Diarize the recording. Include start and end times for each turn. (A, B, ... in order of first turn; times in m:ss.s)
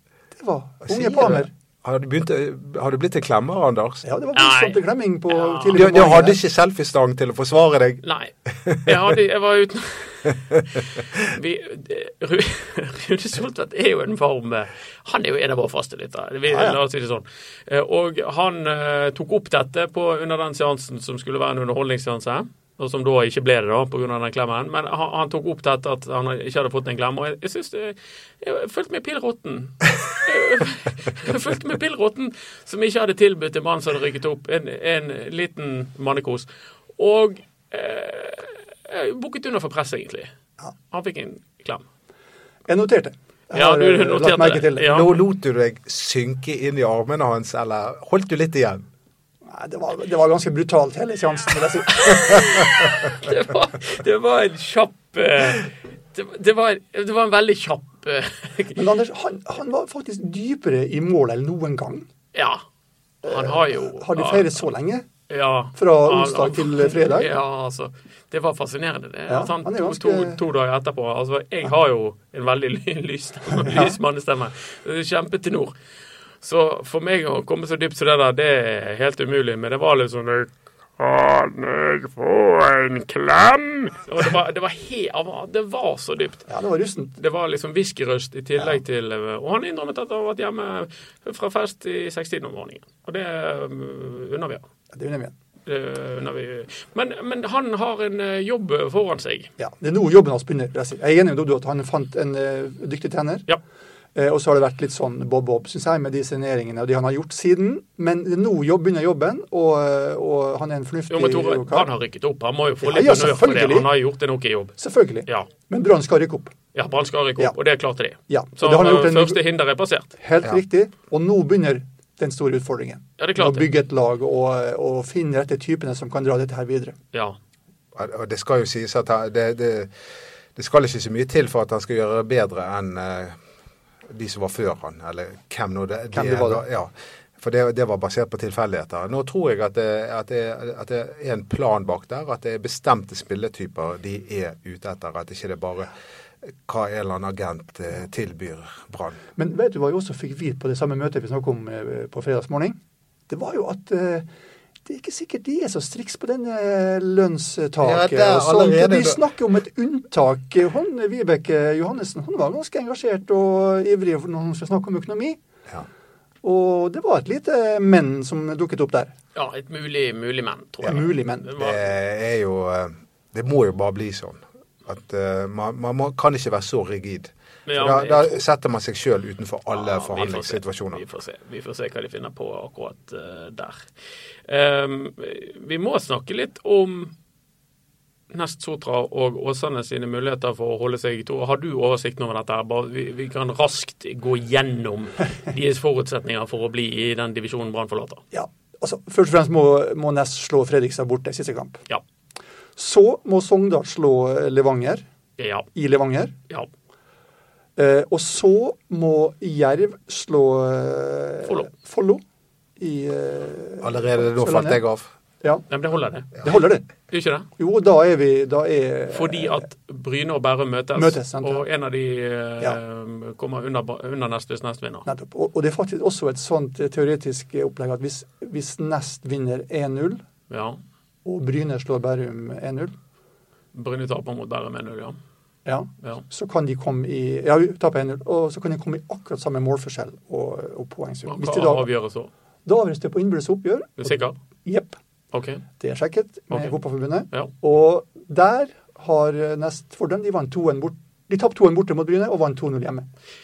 0:00.3-0:01.5 A
0:00.9-0:04.0 B
0:04.0-0:06.4 A
0:04.3-0:05.8 C
0:05.7-0:09.1 B
0:08.0-0:08.3 C
0:08.8-0:40.3 C
0:16.5-0:16.8 A
0:40.9-0:41.8 C
0:42.7-0:45.0 A
0:43.5-0:45.2 C
0:44.9-0:48.8 B
0:49.4-0:52.6 A
0:51.9-0:58.8 C
0:58.7-1:02.1 A
1:02.3-1:02.6 C
1:03.2-1:04.7 C
1:03.2-1:05.0 A
1:05.3-1:15.7 C
1:05.8-1:07.3 A
1:09.3-1:10.4 A
1:13.5-1:14.0 A
1:16.4-1:26.5 C
1:26.5-1:27.2 A
1:27.2-1:34.6 C
1:34.9-1:35.3 A
1:35.7-1:39.5 C
1:39.6-1:43.5 A
1:44.1-1:51.9 A
1:51.1-1:55.5 C
1:52.8-1:53.9 A
1:54.8-1:56.5 A
1:56.7-2:00.1 C
1:58.3-1:59.4 A
2:00.2-2:07.0 A
2:03.2-2:03.7 C
2:07.9-2:09.9 B
2:10.5-2:13.4 B
2:14.1-2:25.9 B
2:16.1-2:16.6 A
2:26.5-2:29.2 B
2:29.4-2:32.8 A
2:33.3-2:34.3 A
2:34.8-2:45.4 A
2:37.8-2:39.2 B
2:46.4-2:49.1 A
2:49.3-2:51.9 C
2:50.8-2:51.5 A
2:51.6-3:01.0 B
2:57.7-2:58.4 C
2:59.7-3:03.9 C
3:04.4-3:07.1 C
3:08.3-3:18.2 C
3:18.3-3:21.8 A
3:22.8-3:25.0 A
3:25.4-3:25.7 C
3:25.7-3:26.3 A
3:27.8-3:32.2 A
3:31.4-3:31.7 C
3:32.8-3:34.8 A
3:33.8-3:35.1 B
3:35.7-3:37.5 C
3:36.4-3:36.8 A
3:37.6-3:39.7 A
3:39.1-3:45.1 C
3:41.0-3:41.6 A
3:45.0-3:50.2 A
3:50.5-3:50.8 C
3:51.2-3:52.9 A
3:53.7-3:55.2 C
3:55.6-4:01.9 A
4:01.3-4:02.3 C
4:02.6-4:05.0 A
4:04.0-4:04.4 C
4:05.3-4:05.6 C
4:05.8-4:13.1 A